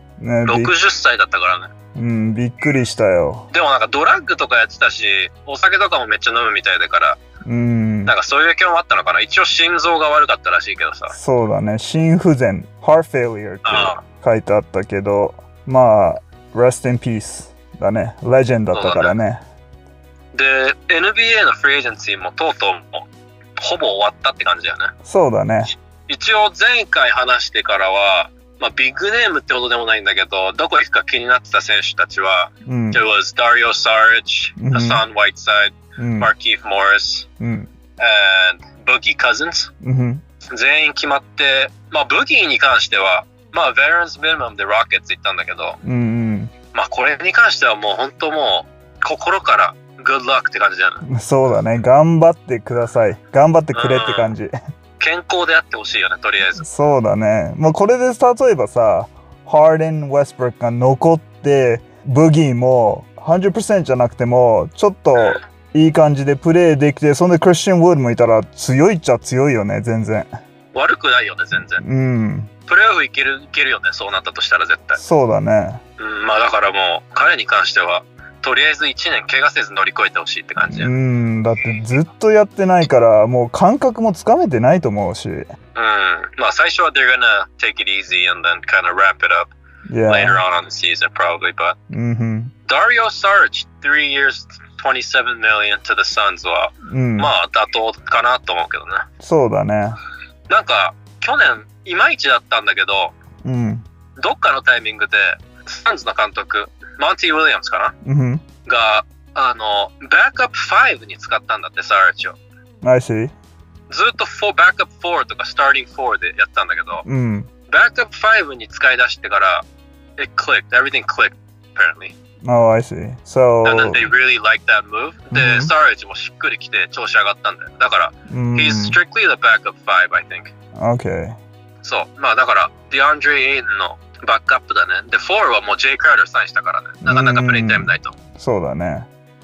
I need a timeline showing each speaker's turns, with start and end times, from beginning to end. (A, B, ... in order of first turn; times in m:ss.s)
0:00.2-0:00.7 A
0:00.4-0:01.7 B
0:01.9-0:03.5 A
0:03.5-0:07.2 B
0:07.4-0:08.1 A
0:08.0-0:11.1 B
0:11.1-0:19.4 A
0:13.6-0:14.0 B
0:18.7-0:19.1 B
0:20.3-0:23.0 B
0:23.6-0:24.9 B
0:25.0-0:25.7 A
0:26.1-0:37.3 B
0:32.6-0:33.0 A
0:34.6-0:35.0 A
0:36.0-0:36.3 A
0:37.4-0:37.7 A
0:38.0-0:39.7 B
0:39.8-0:40.2 A
0:40.5-0:45.8 B
0:45.8-0:46.5 A
0:46.7-0:51.0 B
0:51.0-0:54.5 A
0:53.7-0:54.3 B
0:55.0-0:56.6 B
0:56.6-1:10.3 A
1:10.7-1:11.8 B
1:11.8-1:12.5 A
1:12.7-1:15.0 B
1:15.0-1:15.8 A
1:16.0-1:20.9 B
1:20.7-1:25.5 A
1:25.7-1:29.5 B
1:29.9-1:30.4 A
1:30.1-1:31.8 B
1:31.9-1:32.5 A
1:32.7-1:39.0 B
1:36.9-1:37.3 A
1:39.2-1:40.0 A
1:40.5-1:43.1 B
1:43.4-1:43.8 A
1:44.2-1:47.9 B
1:48.0-1:48.4 A
1:48.6-1:52.4 B
1:52.8-1:53.3 A
1:53.9-1:57.0 B
1:57.0-1:57.5 A
1:57.7-1:59.6 B
2:00.2-2:02.1 B
2:02.4-2:04.1 A
2:03.6-2:10.5 B
2:05.3-2:05.7 A
2:08.3-2:09.0 A
2:10.8-2:11.4 A
2:11.8-2:18.1 B
2:17.0-2:19.1 A